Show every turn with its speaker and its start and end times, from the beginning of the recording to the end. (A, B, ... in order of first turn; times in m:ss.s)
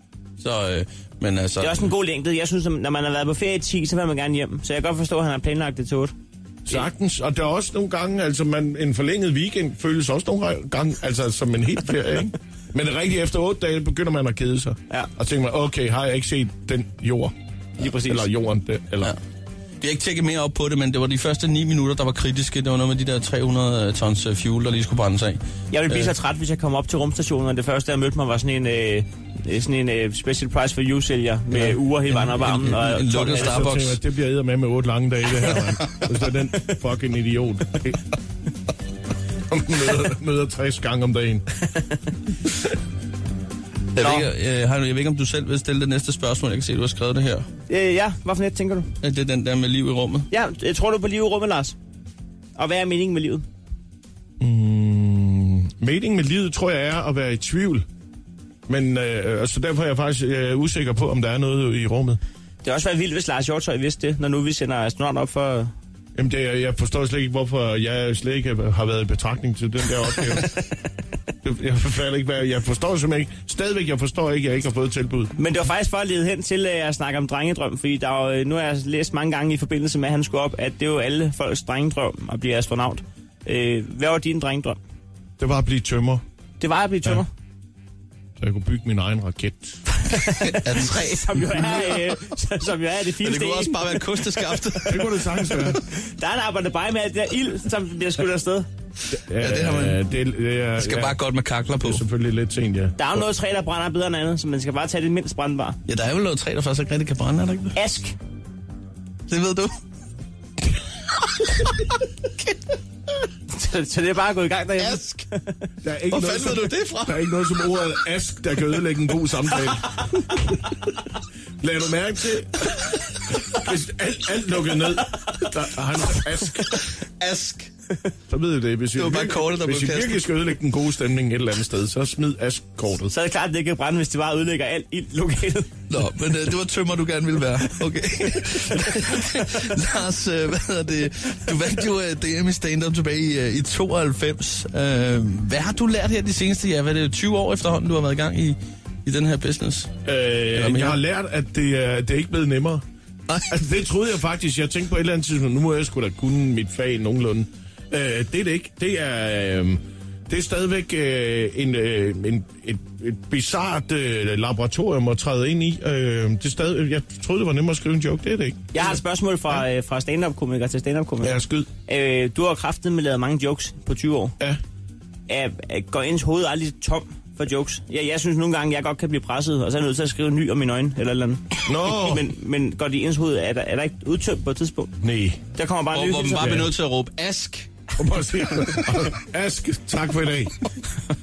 0:00.4-0:01.9 A
0:01.6-0:06.1 B
0:06.6-0:17.3 C
0:17.8-0:18.2 B
0:18.0-0:19.1 C
0:19.8-0:26.1 A
0:25.7-0:33.6 B
0:31.5-0:34.0 A
0:33.1-0:38.1 C
0:39.5-0:41.4 C
0:43.9-0:47.5 A
0:44.0-0:44.3 B
0:47.7-0:48.9 B
0:49.0-0:50.3 A
0:50.3-0:51.8 B
0:52.6-0:53.4 B
0:54.4-0:57.8 C
0:58.7-1:02.2 C
1:02.6-1:05.7 B
1:06.2-1:10.7 C
1:11.4-1:15.3 C
1:15.4-1:24.8 B
1:25.4-1:26.2 C
1:26.6-1:27.3 B
1:28.4-1:29.9 C
1:30.0-1:38.7 B
1:30.4-1:32.0 A
1:33.2-1:35.0 A
1:34.8-1:35.8 C
1:39.1-1:41.2 C
1:39.4-1:40.0 A
1:40.8-1:42.0 A
1:41.8-1:43.2 C
1:43.0-1:45.8 B
1:45.9-1:47.8 A
1:47.8-1:48.1 B
1:49.3-1:49.7 A
1:53.5-1:55.6 B
1:54.8-1:55.2 A
1:55.8-2:00.8 C
1:56.1-1:57.9 A
2:01.6-2:02.8 C
2:03.4-2:06.9 C
2:06.7-2:07.7 A
2:08.3-2:13.1 C
2:08.9-2:10.3 A
2:13.1-2:15.7 B
2:15.9-2:29.9 A
2:30.0-2:32.8 C
2:30.5-2:31.0 A
2:33.4-2:49.0 C
2:48.7-2:54.4 B
2:51.2-2:51.7 C
2:55.3-3:04.9 B
3:01.7-3:02.3 C
3:05.0-3:05.4 C
3:05.6-3:06.6 B
3:05.9-3:07.7 A
3:06.4-3:06.7 C
3:08.0-3:10.6 C